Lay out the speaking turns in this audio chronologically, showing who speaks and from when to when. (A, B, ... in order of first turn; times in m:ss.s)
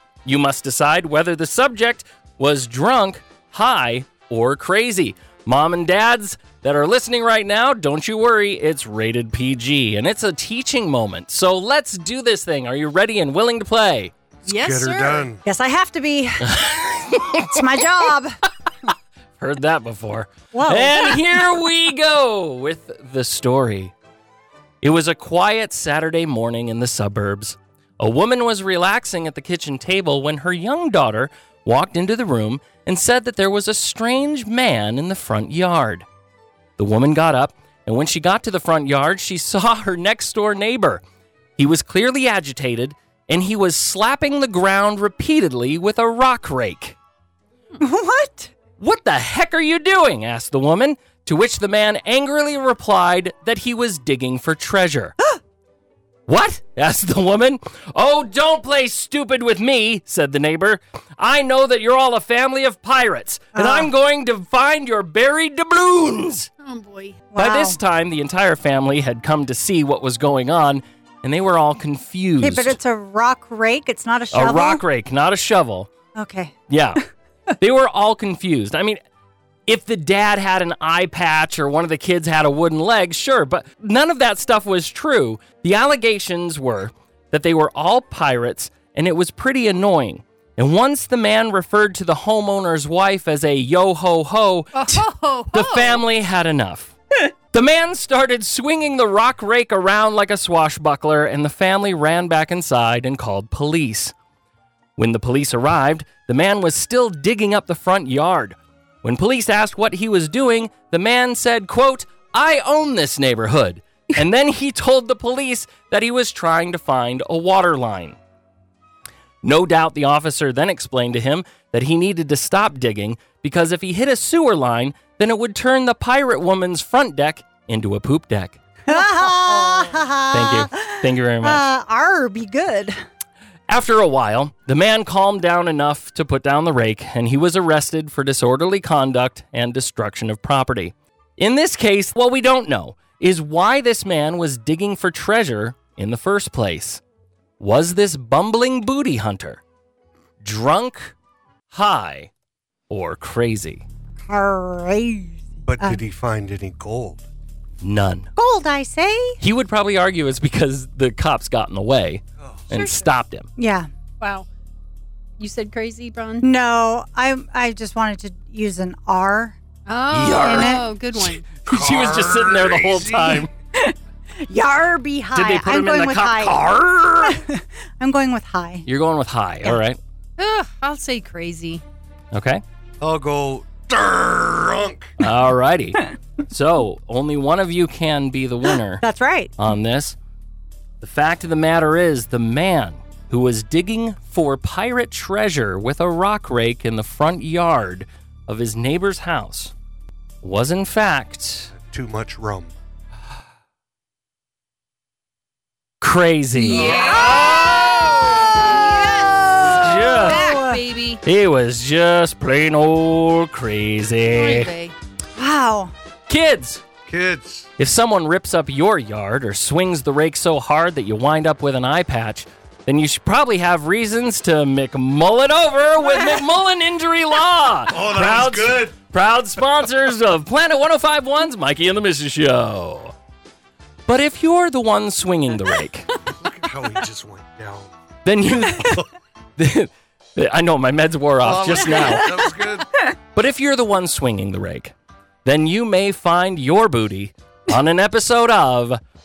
0:00.2-0:14.1 A
0:14.4-0:15.3 B
0:14.5-0:15.4 C
0:15.4-0:16.6 D
0:16.4-0:17.9 A
0:17.2-0:18.4 D
0:19.4-0:23.9 A
0:20.5-0:21.2 D
0:24.8-0:36.0 A
0:36.8-0:41.0 A
0:41.6-0:47.0 A
0:47.8-0:48.5 D
0:48.8-0:55.2 A
0:56.3-1:06.5 A
1:03.5-1:03.9 D
1:06.6-1:07.2 B
1:07.3-1:07.8 D
1:07.4-1:12.8 A
1:12.4-1:14.8 D
1:14.3-1:15.9 A
1:16.2-1:16.5 D
1:16.7-1:17.0 A
1:17.6-1:19.0 A
1:19.7-1:34.9 A
1:34.7-1:36.0 B
1:35.5-1:36.9 A
1:37.5-1:44.1 A
1:45.0-1:58.2 A
1:59.4-2:08.6 A
2:08.9-2:13.0 D
2:10.3-2:11.6 A
2:13.7-2:27.0 A
2:27.6-2:29.6 A
2:30.4-2:31.1 A
2:31.7-2:32.3 A
2:32.9-2:33.8 A
2:34.2-2:36.0 D
2:35.6-2:37.2 C
2:37.8-2:38.3 A
2:38.4-2:39.4 D
2:39.4-2:43.5 A
2:42.7-2:43.0 B
2:43.6-2:43.9 D
2:44.2-2:44.5 B
2:45.4-2:46.4 B
2:46.4-2:49.6 D
2:49.9-2:51.5 B
2:50.1-2:50.8 A
2:50.4-2:50.8 D
2:51.6-2:53.5 A
2:51.7-2:53.4 C
2:53.8-2:56.6 D
2:55.3-2:57.4 A
2:57.2-2:58.8 D
2:58.8-3:00.0 A
3:00.4-3:01.8 B
3:02.3-3:02.6 A
3:03.0-3:05.2 C
3:05.2-3:09.0 A
3:09.0-3:09.5 D
3:09.6-3:10.2 A
3:11.0-3:19.7 A
3:20.4-3:21.7 A
3:21.8-3:22.7 C
3:26.0-3:28.2 A
3:26.6-3:31.2 B
3:26.8-3:28.2 C
3:28.0-3:30.8 D
3:29.7-3:30.4 A
3:31.2-3:34.7 A
3:34.3-3:34.9 B
3:35.4-3:35.9 D
3:36.3-3:36.8 A
3:37.1-3:37.7 C
3:37.8-3:53.1 A
3:47.9-3:48.9 C
3:54.0-3:56.1 A
3:56.3-3:57.9 C
3:58.2-4:02.4 A
4:01.4-4:02.9 C
4:03.3-4:04.9 A
4:05.4-4:09.0 A